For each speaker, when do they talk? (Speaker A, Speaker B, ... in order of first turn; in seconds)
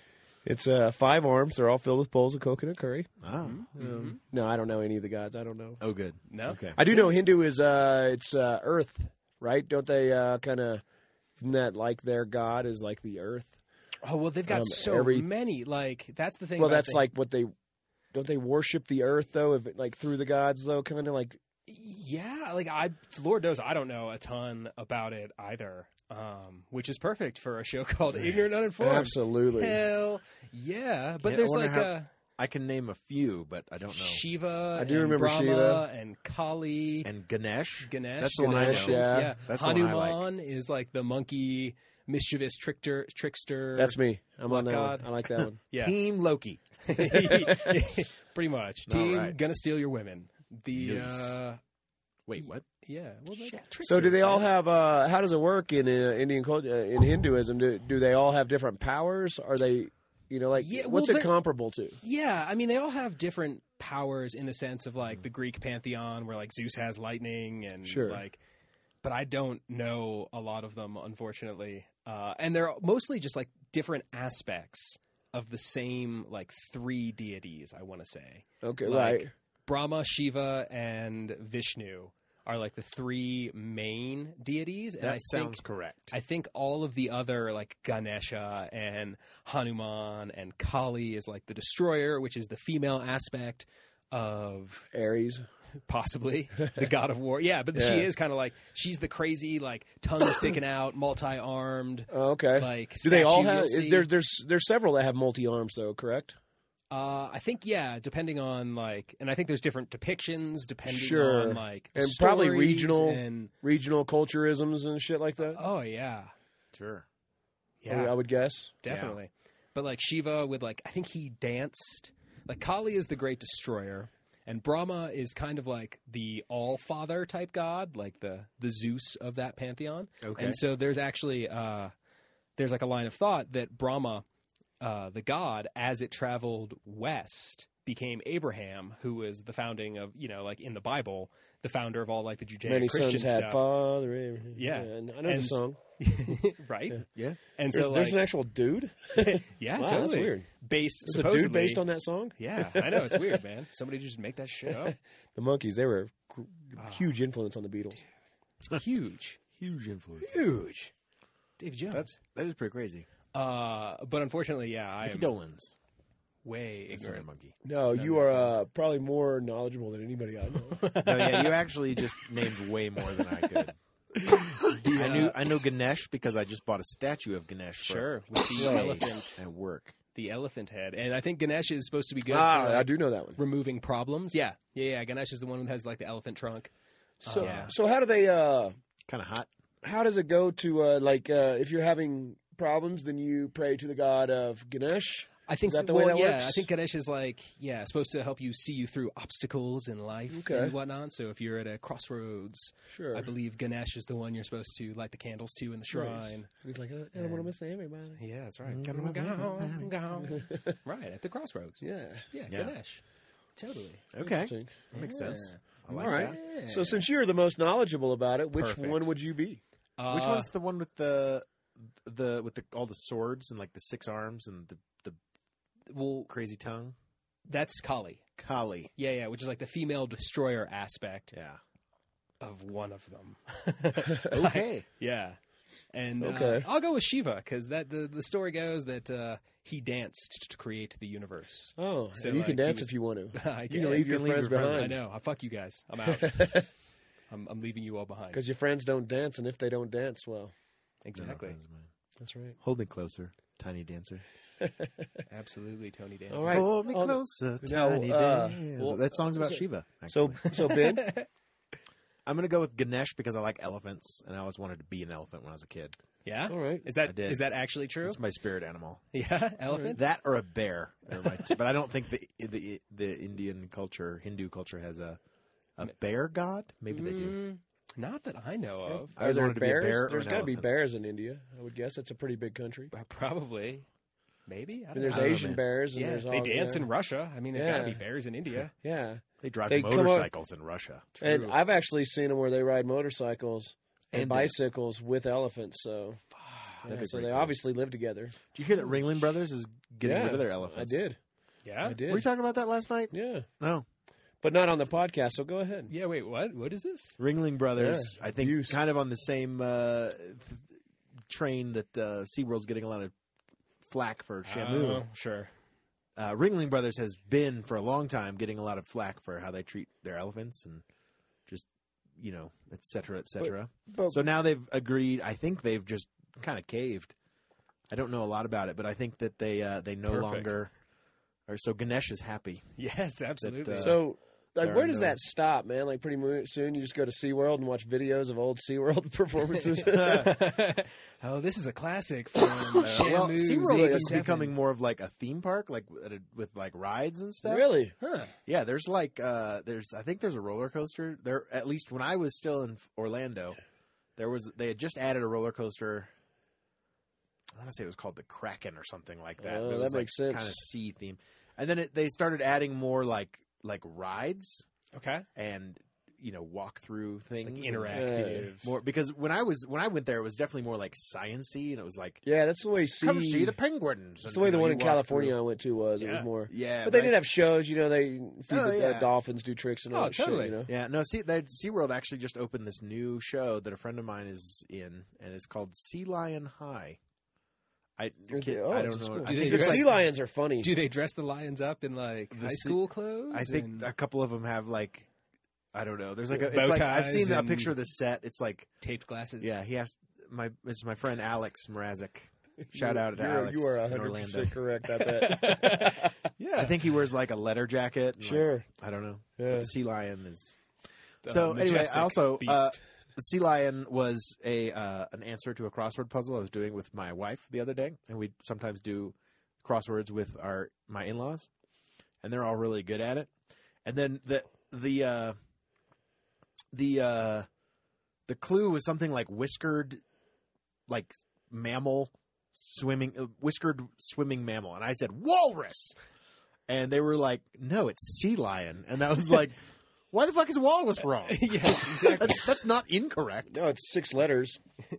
Speaker A: 0.4-3.1, 3.7-5.8, 6.7-10.8, 11.4-13.6, 14.5-15.3, 16.6-17.5, 18.1-21.4, 28.8-29.8, 34.8-35.8, 38.4-39.4, 43.7-45.6, 47.1-47.8, 53.8-62.0, 67.8-68.2, 78.6-79.3, 94.9-95.5, 97.7-98.1, 102.1-106.3, 110.8-115.6, 117.9-118.7, 142.6-146.3, 147.7-150.5, 151.0-153.4, 154.7-158.0, 167.6-170.8, 174.1-174.8, 178.6-179.0, 182.3-183.4, 187.2-188.7, 189.8-196.7, 200.3-200.7, 202.9-203.3, 205.9-208.2, 210.2-210.8, 211.8-212.2, 214.2-214.9, 215.9-219.6, 236.2-236.7, 241.8-245.0, 246.1-246.7, 248.3-250.5, 252.2-252.5, 254.6-255.2, 256.3-261.1, 266.5-266.9, 269.7-269.9, 278.9-282.9, 284.9-286.9, 287.5-288.0, 288.8-290.3, 291.2-296.2, 296.8-298.4, 300.0-301.2, 301.8-302.2, 303.1-303.5, 304.4-305.9, 307.8-308.8, 323.4-324.3, 333.8-340.3, 342.6-343.1, 343.6-344.2, 347.4-347.9, 359.4-360.6, 367.9-368.5, 372.2-373.6, 374.2-380.7, 388.3-390.7, 402.6-406.1, 408.2-408.7, 409.4-409.7, 443.5-444.6
Speaker B: 3.2-3.6, 5.8-6.8, 28.2-28.4, 31.2-34.2, 37.0-40.2, 45.8-46.6, 48.9-49.4, 50.7-51.4, 52.3-52.6, 53.4-54.0, 85.0-86.1, 116.7-117.0, 118.9-119.2, 130.2-130.6, 159.6-160.5, 161.9-163.1, 165.0-165.7, 166.9-167.5, 171.0-173.8, 174.7-179.9, 187.4-187.7, 189.1-189.5, 208.7-209.9, 212.5-212.7, 214.1-216.4, 220.1-225.2, 226.3-226.9, 228.4-228.9, 231.3-231.6, 234.3-234.8, 243.9-245.0, 251.2-251.9, 252.6-254.2, 256.5-260.5, 262.2-266.0, 267.0-267.4, 268.0-269.0, 269.9-275.2, 275.8-277.4, 279.1-280.7, 285.1-285.6, 289.4-291.1, 294.1-294.7, 296.8-297.5, 298.5-301.0, 302.1-303.8, 307.2-310.6, 311.3-313.1, 313.9-315.0, 316.2-320.8, 321.5-327.1, 327.9-330.7, 331.5-332.7, 333.4-334.0, 334.6-335.2, 339.9-340.4, 342.8-347.7, 348.4-353.6, 354.2-356.1, 357.5-364.6, 365.3-372.2, 373.0-375.4, 376.5-377.2, 378.5-379.1, 380.7-387.0, 388.0-389.9, 392.3-395.1, 395.7-398.7, 399.4-404.6, 406.6-410.6, 411.2-421.5, 422.2-423.3, 423.8-425.4, 426.7-427.5, 428.3-430.0, 430.9-435.9, 436.7-439.6, 440.1-443.6
Speaker C: 3.4-4.2, 6.3-7.0, 14.0-17.1, 21.7-32.1, 33.9-37.1, 37.9-46.0, 46.8-51.6, 52.4-54.5, 60.5-61.3, 62.0-68.4, 69.0-85.6, 86.1-94.9, 95.8-104.1, 106.9-113.5, 115.4-116.3, 117.8-118.2, 118.8-131.9, 132.6-134.2, 134.8-143.6, 144.5-148.2, 149.2-151.8, 152.4-154.9, 156.8-157.1, 158.7-159.4, 160.2-160.9, 161.6-162.1, 163.3-165.3, 166.4-167.2, 167.9-168.5, 170.7-171.7, 174.9-175.3, 177.8-179.4, 180.1-186.7, 187.2-187.7, 195.5-206.5, 207.1-207.5, 208.2-213.0, 213.6-214.1, 214.9-215.6, 216.1-217.0, 218.6-219.1, 220.0-220.5, 225.9-226.3, 227.5-228.2, 228.9-231.3, 232.4-235.4, 235.9-244.1, 244.7-246.7, 247.3-248.4, 251.0-251.6, 255.3-256.7, 260.5-261.3, 266.2-268.2, 269.1-270.0, 271.1-271.5, 276.9-279.1, 282.9-283.9, 284.5-288.7, 291.2-291.6, 296.4-296.8, 301.6-302.0, 305.9-307.2, 314.4-315.5, 330.1-330.5, 332.8-334.0, 339.5-344.5, 348.0-348.3, 364.9-365.2, 367.4-368.8, 376.0-376.3, 379.9-380.6, 389.2-389.9, 390.6-393.9, 396.4-397.7, 398.8-399.6, 404.9-406.8, 411.2-412.8, 441.2-442.5